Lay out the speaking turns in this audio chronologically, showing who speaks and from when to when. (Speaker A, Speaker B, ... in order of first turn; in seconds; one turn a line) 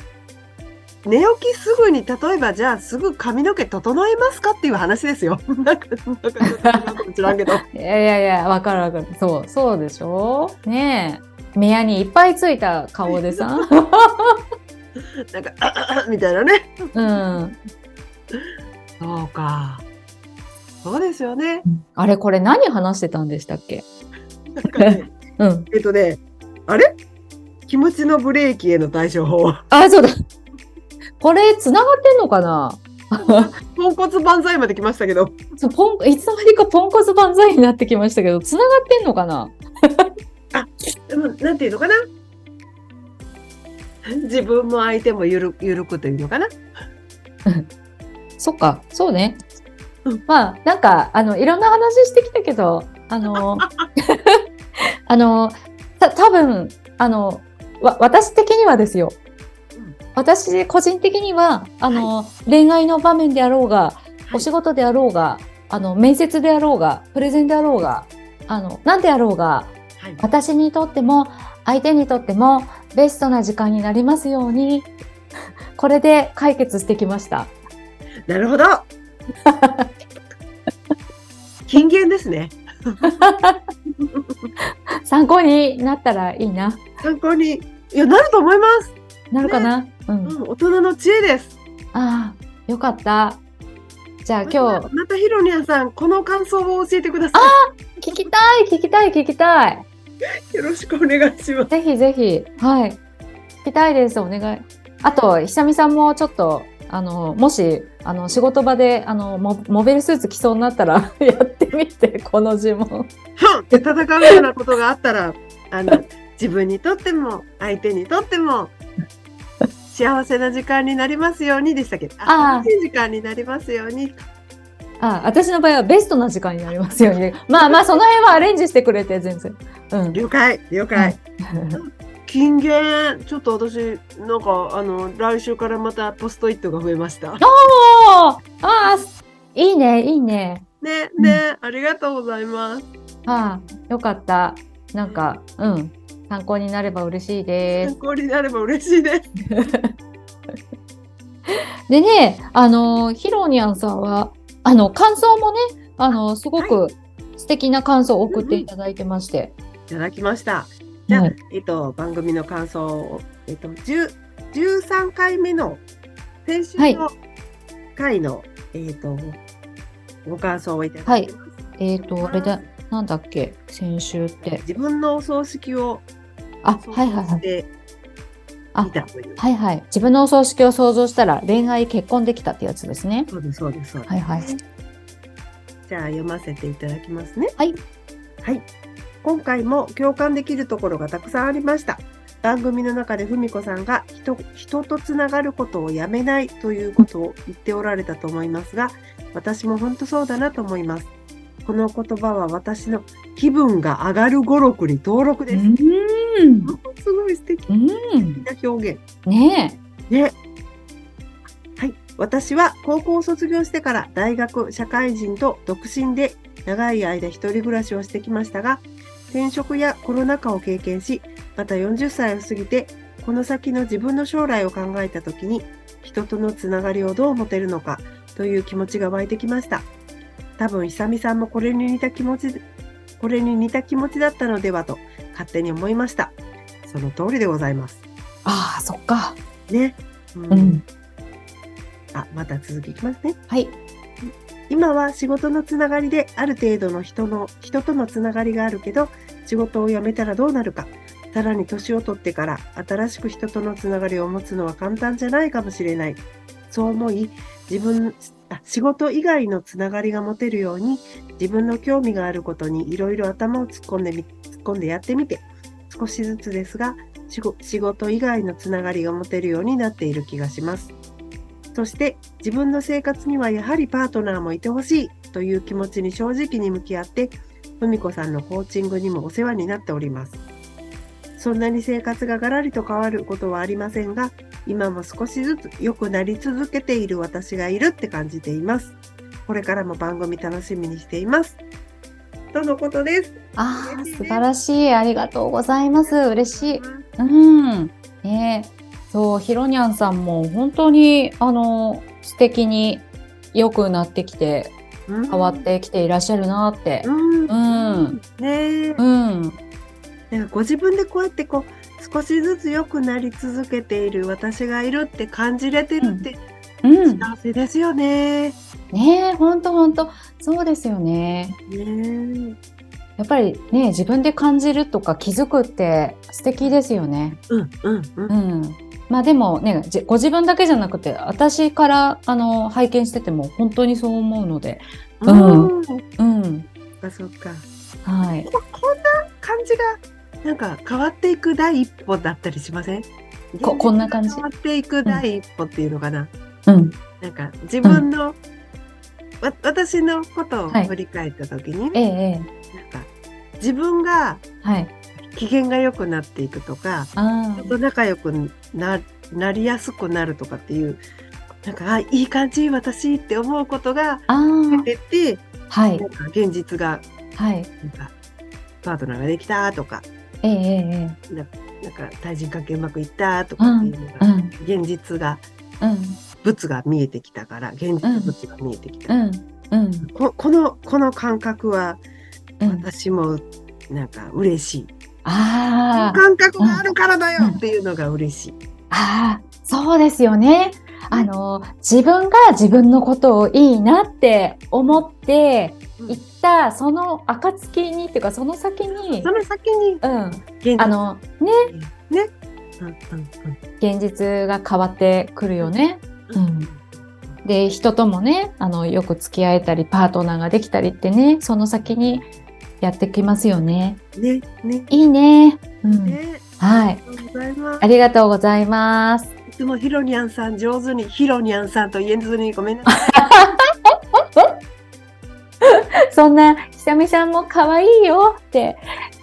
Speaker A: 1.0-7.6
Speaker B: 6.4-6.8
Speaker B: 7.6-14.4
Speaker A: 13.1-13.7
Speaker A: 15.0-17.2
Speaker B: 16.9-17.6
Speaker A: 18.3-19.9
Speaker A: 20.8-21.6
Speaker B: 21.7-23.9
Speaker A: 24.5-25.1
Speaker B: 24.7-25.7
Speaker A: 25.7-27.0
Speaker A: 27.7-29.6
Speaker B: 29.7-30.1
Speaker B: 31.2-33.5
Speaker A: 33.2-35.4
Speaker B: 35.6-40.1
Speaker A: 40.5-42.0
Speaker A: 44.0-46.6
Speaker B: 48.4-49.4
Speaker B: 50.3-54.4
Speaker A: 53.3-53.9
Speaker B: 55.1-59.2
Speaker B: 60.2-74.9
Speaker B: 75.8-77.5
Speaker A: 78.3-78.9
Speaker B: 79.5-79.9
Speaker A: 81.7-83.2
Speaker B: 83.0-83.6
Speaker A: 84.0-84.5
Speaker B: 85.1-86.8
Speaker A: 87.0-89.7
Speaker B: 89.3-90.4
Speaker A: 90.2-91.6
Speaker B: 91.9-93.4
Speaker B: 94.2-94.9
Speaker A: 94.5-97.6
Speaker B: 97.3-99.9
Speaker A: 100.5-101.7
Speaker B: 101.7-103.0
Speaker B: 103.6-113.1
Speaker A: 113.4-118.8
Speaker B: 113.7-114.4
Speaker A: 119.9-124.3
Speaker B: 122.3-122.7
Speaker B: 125.0-130.2
Speaker A: 130.1-131.2
Speaker B: 130.9-131.8
Speaker A: 131.8-137.4
Speaker B: 137.4-140.7
Speaker A: 140.8-142.9
Speaker B: 143.3-147.9
Speaker A: 147.7-149.3
Speaker B: 149.5-149.9
Speaker B: 151.5-159.6
Speaker A: 158.3-158.7
Speaker A: 159.9-165.8
Speaker B: 161.1-161.3
Speaker A: 166.4-167.2
Speaker B: 166.8-167.0
Speaker A: 168.0-169.4
Speaker A: 170.2-171.5
Speaker B: 171.1-174.6
Speaker A: 172.2-172.7
Speaker A: 174.6-176.1
Speaker B: 176.6-177.4
Speaker A: 176.8-177.7
Speaker B: 178.8-183.3
Speaker A: 178.8-179.4
Speaker A: 183.3-184.6
Speaker B: 184.1-184.5
Speaker A: 185.9-187.6
Speaker A: 189.2-201.1
Speaker A: 201.7-205.7
Speaker B: 205.5-206.7
Speaker A: 206.7-207.7
Speaker B: 207.7-208.4
Speaker A: 208.4-209.0
Speaker B: 209.3-209.8
Speaker A: 210.1-210.3
Speaker A: 211.8-229.9
Speaker A: 230.6-232.7
Speaker A: 233.2-238.0
Speaker B: 238.4-239.4
Speaker A: 239.7-240.8
Speaker B: 240.5-240.8
Speaker A: 242.1-243.4
Speaker B: 243.5-243.8
Speaker A: 244.2-270.9
Speaker A: 271.7-280.4
Speaker A: 281.4-288.9
Speaker A: 289.5-291.6
Speaker A: 292.5-294.4
Speaker B: 293.6-304.8
Speaker A: 295.9-297.1
Speaker A: 305.1-305.7
Speaker B: 305.3-308.2
Speaker A: 307.0-309.0
Speaker B: 309.0-309.6
Speaker A: 310.3-316.4
Speaker B: 316.0-316.3
Speaker B: 316.8-317.3
Speaker A: 317.1-318.6
Speaker B: 318.9-321.6
Speaker A: 321.7-322.6
Speaker B: 323.2-327.4
Speaker A: 327.5-328.3
Speaker B: 328.3-336.7
Speaker A: 335.2-336.1
Speaker A: 337.0-337.7
Speaker B: 338.1-338.5
Speaker A: 338.5-346.3
Speaker B: 343.6-344.4
Speaker B: 346.7-347.0
Speaker A: 347.2-348.4
Speaker A: 349.4-352.0
Speaker B: 351.9-352.5
Speaker A: 352.7-354.4
Speaker B: 354.6-354.9
Speaker A: 355.2-361.0
Speaker B: 357.2-357.8
Speaker A: 361.6-365.4
Speaker B: 364.3-364.9
Speaker B: 365.7-366.1
Speaker A: 366.0-367.1
Speaker B: 367.4-367.7
Speaker A: 367.8-368.1
Speaker A: 368.8-370.1
Speaker B: 370.4-371.2
Speaker A: 371.3-375.4
Speaker B: 373.6-374.5
Speaker B: 375.8-376.2
Speaker A: 376.4-379.1
Speaker B: 378.0-378.3
Speaker B: 379.1-380.1
Speaker A: 380.1-382.0
Speaker B: 382.6-382.9
Speaker A: 382.7-384.9
Speaker B: 385.2-386.8
Speaker A: 385.9-388.6
Speaker B: 388.9-399.3
Speaker A: 398.9-400.0
Speaker B: 400.0-401.7
Speaker A: 400.6-403.6
Speaker B: 403.8-406.7
Speaker A: 406.3-407.4
Speaker B: 407.4-412.3
Speaker A: 411.8-412.4
Speaker B: 412.8-414.0
Speaker A: 414.2-414.9
Speaker B: 414.9-417.0
Speaker A: 416.1-417.9
Speaker B: 417.8-419.3
Speaker A: 419.5-423.3
Speaker B: 422.9-424.6
Speaker B: 425.6-428.8